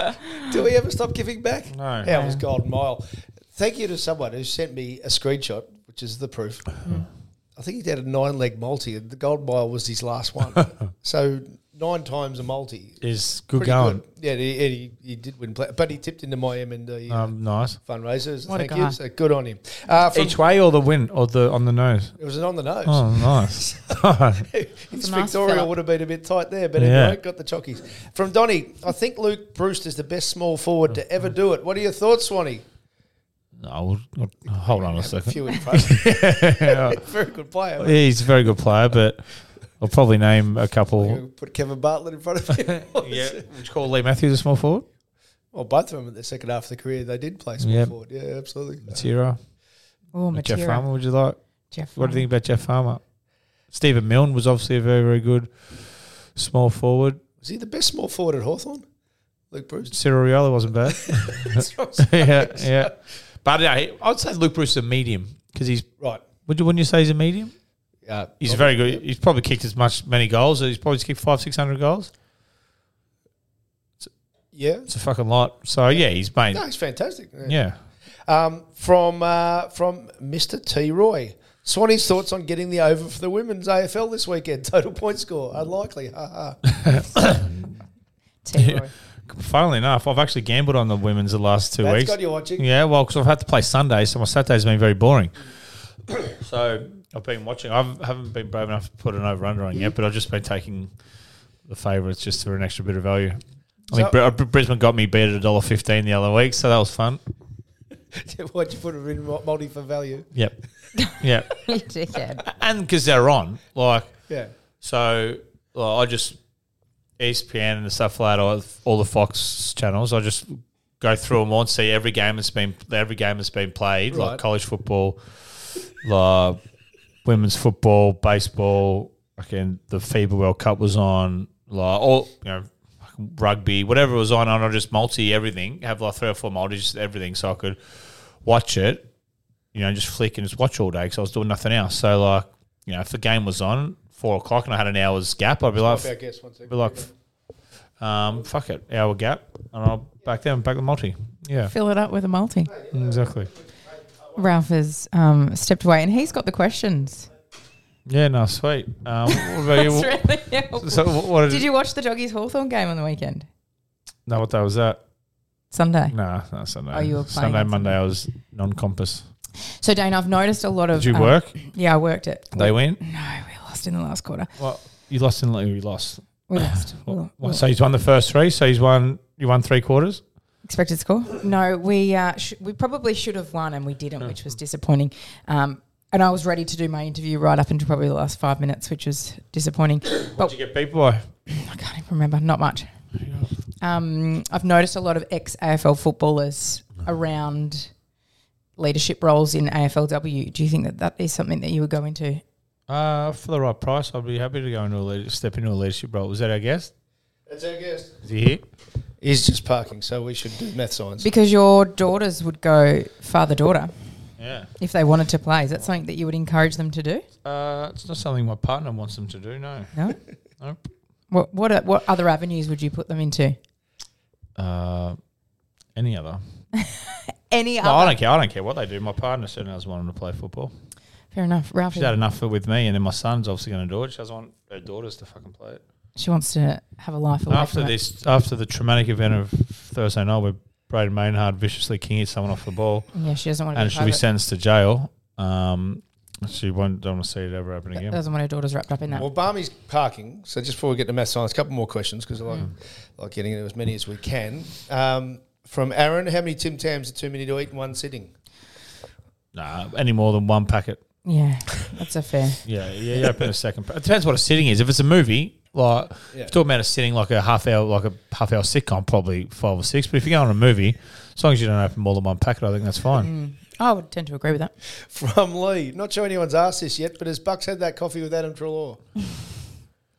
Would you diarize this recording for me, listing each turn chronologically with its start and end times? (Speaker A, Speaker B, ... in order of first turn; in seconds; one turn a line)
Speaker A: 0.3-6.8
Speaker B: 1.7-2.1
Speaker C: 2.1-2.4
Speaker A: 7.5-13.0
Speaker B: 13.0-14.0
Speaker A: 13.5-20.4
Speaker B: 17.1-17.8
Speaker C: 18.5-19.0
Speaker B: 20.1-22.1
Speaker A: 22.2-32.6
Speaker B: 22.8-24.5
Speaker C: 24.9-25.7
Speaker B: 26.8-27.2
Speaker B: 33.6-37.0
Speaker A: 34.6-38.1
Speaker B: 37.8-41.2
Speaker A: 40.9-43.4
Speaker B: 42.7-44.8
Speaker A: 45.5-49.0
Speaker B: 47.6-47.9
Speaker B: 48.9-49.4
Speaker C: 50.1-50.9
Speaker B: 50.3-51.4
Speaker C: 51.7-52.2
Speaker B: 51.9-53.0
Speaker B: 53.7-57.2
Speaker A: 57.4-58.9
Speaker A: 59.5-59.9
Speaker B: 59.9-65.9
Speaker A: 60.9-62.9
Speaker B: 66.5-67.5
Speaker A: 68.0-69.0
Speaker B: 68.4-72.1
Speaker A: 74.5-74.9
Speaker B: 74.9-76.6
Speaker A: 75.9-77.6
Speaker B: 77.4-77.8
Speaker A: 78.2-86.6
Speaker B: 86.8-87.5
Speaker C: 88.4-88.9
Speaker B: 88.5-95.3
Speaker A: 91.8-92.6
Speaker B: 96.2-100.9
Speaker B: 101.7-107.2
Speaker A: 103.9-104.2
Speaker A: 108.1-110.3
Speaker B: 111.2-111.5
Speaker C: 111.7-112.4
Speaker B: 112.5-114.1
Speaker B: 114.8-116.4
Speaker B: 117.2-126.6
Speaker A: 124.1-124.4
Speaker B: 127.2-139.1
Speaker B: 139.7-147.1
Speaker A: 145.8-147.1
Speaker B: 148.0-151.7
Speaker C: 151.7-152.7
Speaker B: 152.9-153.5
Speaker C: 154.3-157.3
Speaker B: 158.1-161.7
Speaker C: 159.3-163.5
Speaker B: 164.2-165.0
Speaker C: 165.7-166.1
Speaker B: 166.1-169.2
Speaker C: 166.9-167.9
Speaker C: 169.8-174.5
Speaker B: 170.9-171.6
Speaker B: 172.5-173.0
Speaker B: 174.6-180.2
Speaker C: 176.5-177.6
Speaker C: 180.6-190.5
Speaker B: 190.2-191.3
Speaker C: 191.5-192.9
Speaker B: 193.2-193.5
Speaker C: 193.8-197.9
Speaker C: 198.8-202.4
Speaker B: 202.9-206.9
Speaker A: 207.5-208.1
Speaker B: 208.2-208.6
Speaker A: 209.2-211.3
Speaker C: 211.2-213.9
Speaker B: 214.4-214.7
Speaker C: 214.8-217.2
Speaker B: 217.4-219.9
Speaker C: 221.3-223.6
Speaker B: 224.6-225.2
Speaker B: 225.9-226.4
Speaker C: 226.9-228.2
Speaker B: 227.8-230.7
Speaker C: 231.3-232.1
Speaker B: 231.9-235.8
Speaker C: 236.2-237.9
Speaker B: 237.5-243.1
Speaker C: 243.1-244.2
Speaker B: 243.7-248.2
Speaker C: 248.0-249.2
Speaker A: 249.2-258.3
Speaker B: 259.5-261.0
Speaker C: 261.2-262.6
Speaker B: 262.6-273.3
Speaker C: 273.2-274.7
Speaker A: 274.9-279.0